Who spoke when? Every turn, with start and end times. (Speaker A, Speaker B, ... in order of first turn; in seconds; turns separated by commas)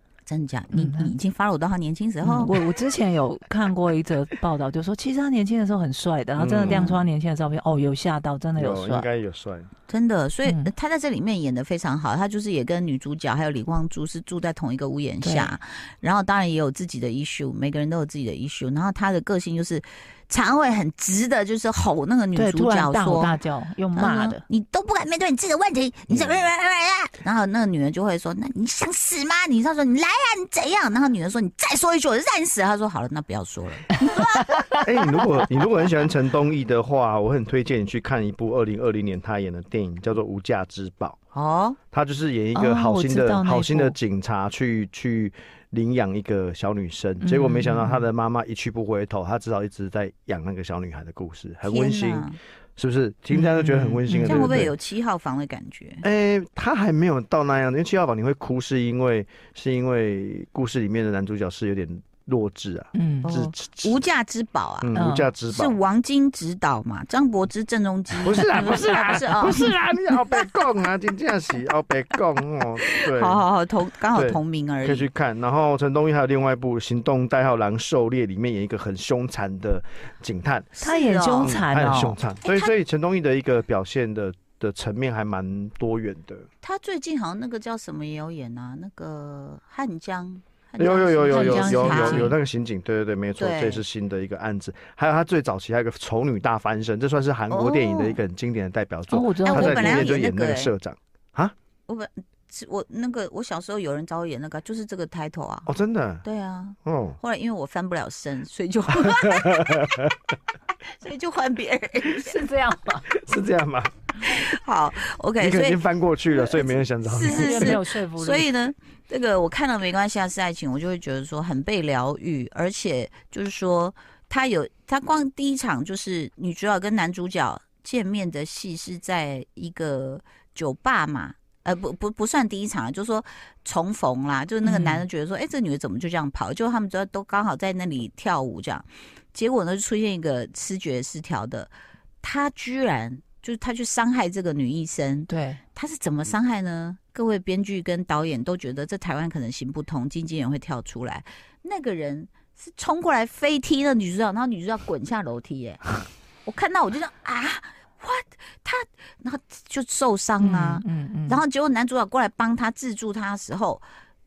Speaker A: 0.3-2.6, Speaker B: 0.7-1.1, Speaker B: 2.2-9.1, Speaker C: 6.4-7.0, Speaker A: 6.6-7.0, Speaker C: 8.6-9.7, Speaker A: 9.9-23.4, Speaker B: 10.4-10.7, Speaker B: 15.2-15.5, Speaker B: 22.3-24.4, Speaker A: 23.9-34.6, Speaker C: 26.1-26.4, Speaker B: 34.0-34.8, Speaker C: 34.8-41.2, Speaker A: 41.3-41.8, Speaker C: 41.9-54.7, Speaker B: 42.5-43.9, Speaker B: 47.2-48.0, Speaker A: 51.6-52.4, Speaker B: 53.3-54.7, Speaker A: 54.2-56.0, Speaker C: 56.0-64.0, Speaker B: 62.9-63.4, Speaker A: 63.2-69.8, Speaker C: 64.8-65.8, Speaker B: 65.0-65.3, Speaker C: 68.2-73.4, Speaker A: 72.9-75.1, Speaker C: 74.1-80.7, Speaker A: 80.8-81.6, Speaker B: 80.8-82.2, Speaker C: 81.4-86.5, Speaker A: 82.4-82.7, Speaker A: 86.6-92.3, Speaker C: 90.8-101.5, Speaker B: 91.3-92.3, Speaker A: 93.4-93.8, Speaker A: 97.5-98.2, Speaker B: 99.1-100.1, Speaker A: 99.5-100.7, Speaker A: 101.9-105.7, Speaker C: 105.7-106.2, Speaker A: 106.2-110.0, Speaker C: 106.8-107.2, Speaker C: 109.0-110.1, Speaker A: 110.8-112.3, Speaker B: 112.1-113.1, Speaker C: 113.1-113.9, Speaker A: 114.2-115.8, Speaker C: 115.4-117.8, Speaker A: 116.3-141.7, Speaker B: 117.1-118.5, Speaker B: 134.6-135.1, Speaker A: 142.2-163.8, Speaker B: 145.3-145.6, Speaker B: 160.4-161.4